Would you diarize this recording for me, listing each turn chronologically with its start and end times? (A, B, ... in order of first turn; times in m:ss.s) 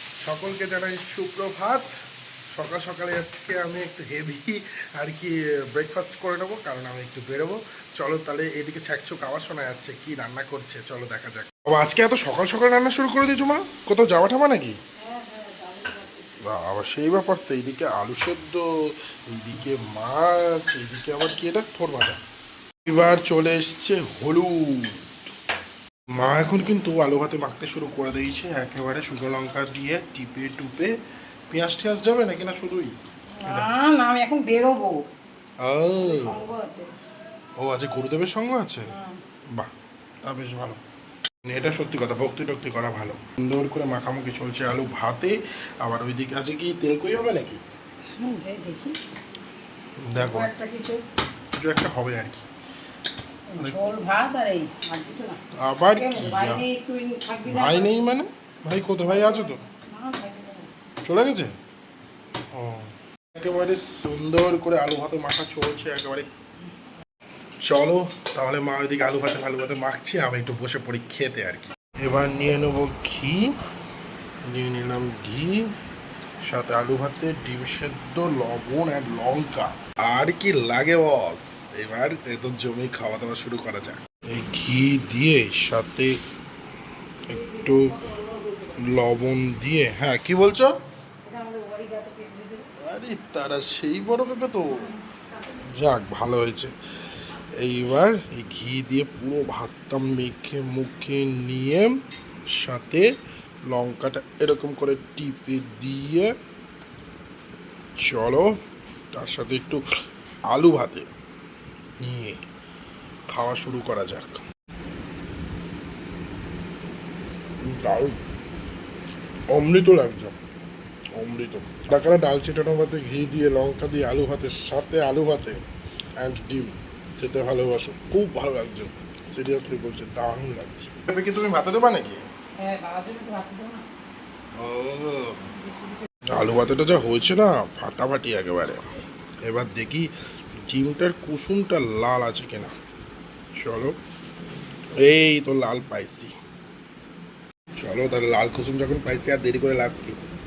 0:00.2-0:01.8 A
0:02.6-0:14.7 A
0:15.0-0:16.2 B
0:16.4-0:18.7 A
0:19.3-0:22.2 A
0:22.9-0:25.0 A
0:26.2-0:31.0 A
0:31.5-0:32.9 A
0:33.4-0:35.0 B
0:35.6-0:36.4 A
0:36.0-0:36.9 B
0:37.6-0:38.9 A
0:38.9-0:39.2 B
0:40.2-0:40.8 A
0:41.4-0:47.6 A
0:48.2-0:49.0 B
0:50.0-0:50.5 A
0:50.1-0:51.0 B
0:51.6-0:52.4 A
0:53.5-0:55.4 B
0:53.6-0:53.9 A
0:55.6-0:56.6 A
0:55.9-0:57.9 B
0:57.5-0:59.6 A
0:59.1-1:00.7 B
1:01.0-1:01.5 A
1:02.5-1:06.3 A
1:07.7-1:13.5 A
1:14.5-1:15.7 A
1:16.4-1:26.2 A
1:27.3-1:28.9 B
1:27.3-1:27.9 A
1:28.8-1:30.8 A
1:31.2-1:32.7 B
1:32.8-1:34.9 A
1:34.7-1:35.8 B
1:35.6-1:36.7 A
1:37.6-1:41.9 A
1:42.5-1:43.0 A
1:43.7-1:46.3 A
1:48.0-1:48.5 A
1:49.1-1:49.8 A
1:50.5-1:51.0 A
1:52.0-1:52.4 A
1:53.3-1:54.4 A
1:57.6-1:58.2 A
1:59.5-2:00.4 A
2:01.2-2:05.6 A
2:06.2-2:12.2 A
2:12.6-2:13.8 B
2:14.6-2:15.4 A
2:15.5-2:16.0 B
2:16.3-2:18.9 A
2:19.4-2:20.1 A
2:20.7-2:22.7 A
2:23.6-2:23.9 A
2:25.0-2:26.3 A
2:27.8-2:30.2 A